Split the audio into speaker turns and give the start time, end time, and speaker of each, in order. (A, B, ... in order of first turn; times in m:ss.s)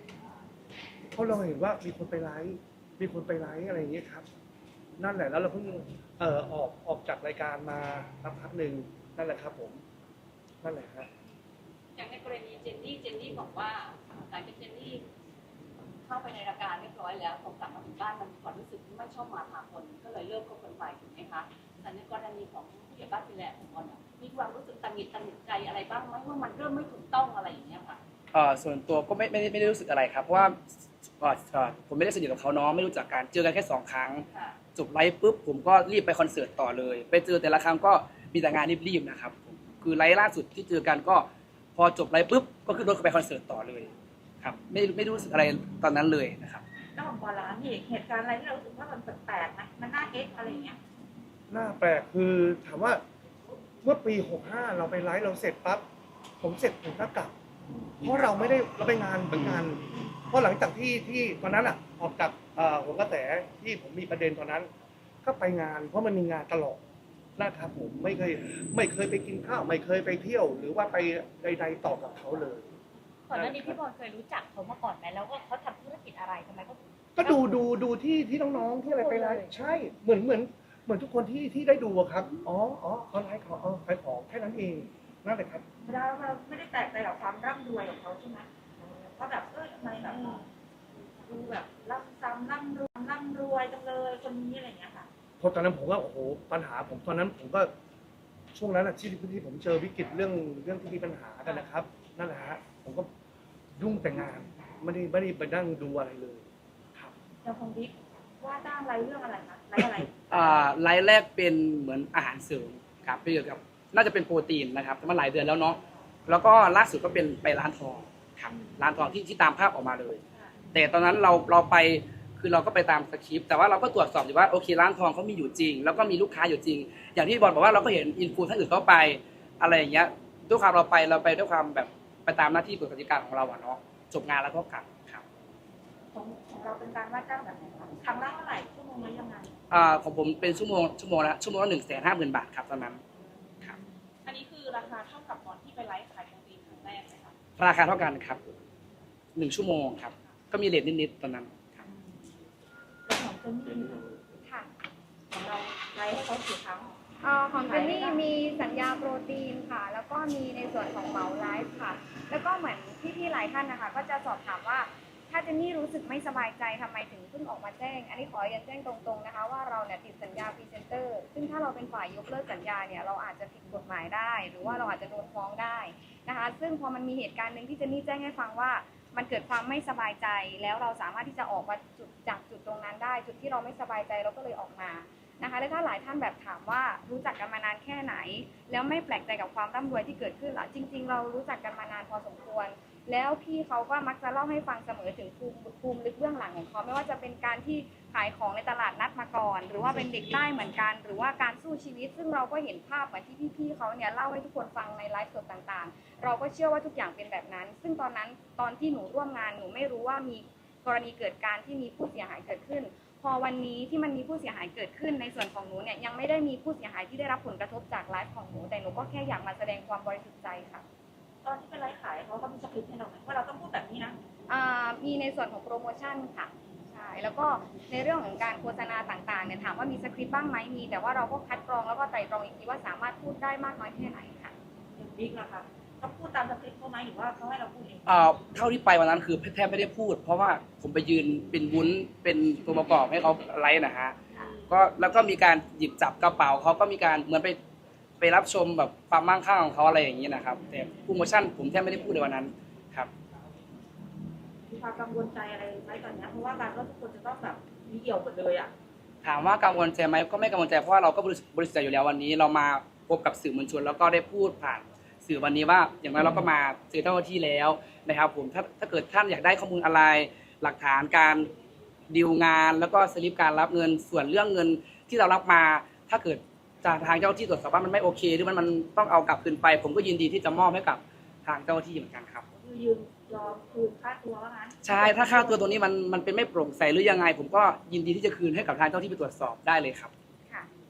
0:01.1-0:04.2 A
0:05.0-0:09.8 A
0:10.6-0:11.1 A
0:11.9-0:15.0 B
0:16.0-0:28.0 B
0:28.3-0:46.6 C
0:34.3-0:34.6 B
0:46.9-0:50.8 D
0:51.5-0:53.0 A
0:53.8-0:55.8 A
0:56.4-0:57.3 A
0:58.0-1:04.7 A
1:05.2-1:06.8 A
1:07.4-1:12.7 A
1:13.3-1:17.6 E
1:13.3-1:13.8 A
1:17.2-1:25.6 A
1:18.8-1:19.5 E
1:25.8-1:30.4 D
1:31.2-1:35.1 D
1:35.4-1:37.7 A
1:38.5-1:43.1 A
1:43.8-1:47.1 A
1:47.4-1:50.6 D
1:50.3-2:00.2 C
2:00.7-2:15.2 C
2:16.1-2:19.5 D
2:19.7-2:23.0 C
2:24.2-2:27.3 B
2:27.6-2:28.4 C
2:29.3-2:31.8 C
2:31.8-2:32.1 D
2:33.0-2:34.0 D
2:35.3-2:36.9 D
2:37.2-3:40.8 F
2:37.7-2:38.2 D
3:41.4-3:44.2 D
3:44.5-3:54.5 F
3:55.0-3:58.0 D
3:58.1-4:04.2 C
4:04.7-4:07.6 C
4:08.2-4:13.1 C
4:14.7-4:18.7 D
4:19.2-4:31.5 C
4:32.1-4:42.4 C
4:42.6-4:45.7 D
4:44.8-4:50.1 C